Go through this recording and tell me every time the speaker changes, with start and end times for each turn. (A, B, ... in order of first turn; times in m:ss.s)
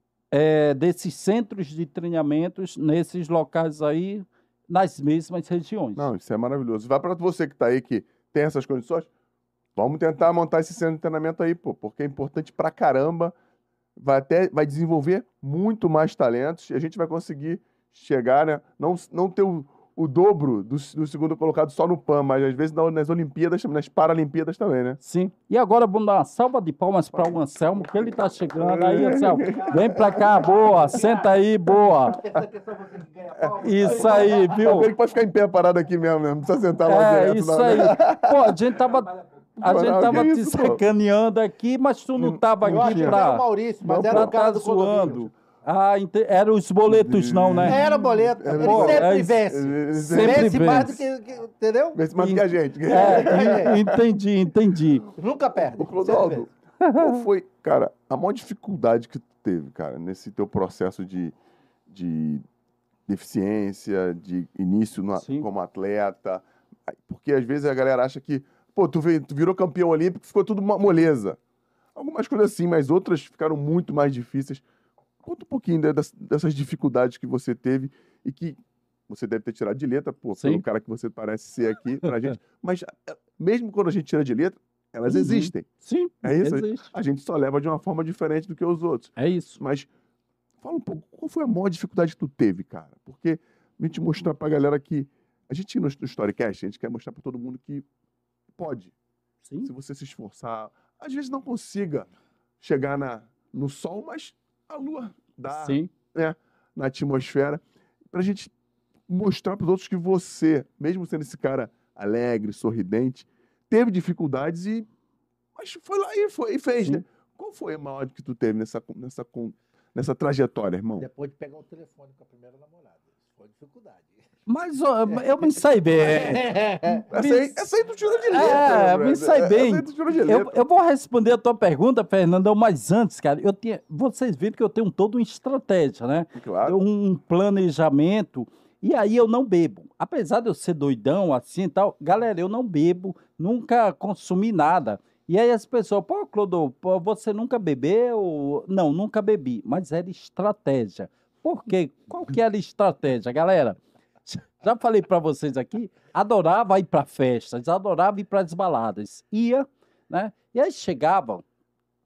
0:00.3-0:06.0 A
0:06.0-0:09.1 B
0:09.7-0:13.3 B
0:14.0-0:25.0 B
0:25.0-0:32.2 A
0:28.6-0:30.3 B
0:29.6-0:31.3 C
0:32.0-0:34.8 C
0:33.3-0:38.6 B
0:33.6-0:34.9 A
0:36.8-0:43.4 A
0:39.6-0:40.8 B
0:42.2-0:43.2 B
0:42.6-0:45.2 C
0:43.8-0:44.4 B
0:44.0-0:47.9 A
0:46.9-0:50.9 B
0:47.6-0:52.0 C
0:48.5-0:49.4 A
0:50.0-0:51.0 A
0:51.9-0:54.0 B
0:52.2-0:55.1 A
0:52.9-0:53.8 C
0:55.1-0:56.5 C
0:55.7-1:01.3 B
0:56.8-0:57.2 A
1:01.9-1:02.4 B
1:03.1-1:11.4 B
1:05.2-1:05.4 A
1:11.9-1:14.6 B
1:15.2-1:18.6 B
1:19.1-1:25.7 B
1:20.4-1:20.6 A
1:25.1-1:26.9 A
1:26.2-1:29.9 B
1:29.2-1:29.6 A
1:30.6-1:37.8 B
1:38.6-1:38.9 B
1:39.4-1:39.7 A
1:39.6-1:42.1 B
1:42.6-1:47.6 B
1:45.5-1:45.9 A
1:48.1-1:48.5 B
1:49.1-1:54.9 B
1:55.6-2:01.1 B
2:01.0-2:04.3 C
2:04.5-2:06.4 A
2:05.1-2:07.1 C
2:07.1-2:07.6 A
2:07.1-2:10.6 B
2:08.3-2:41.4 A
2:16.3-2:16.8 B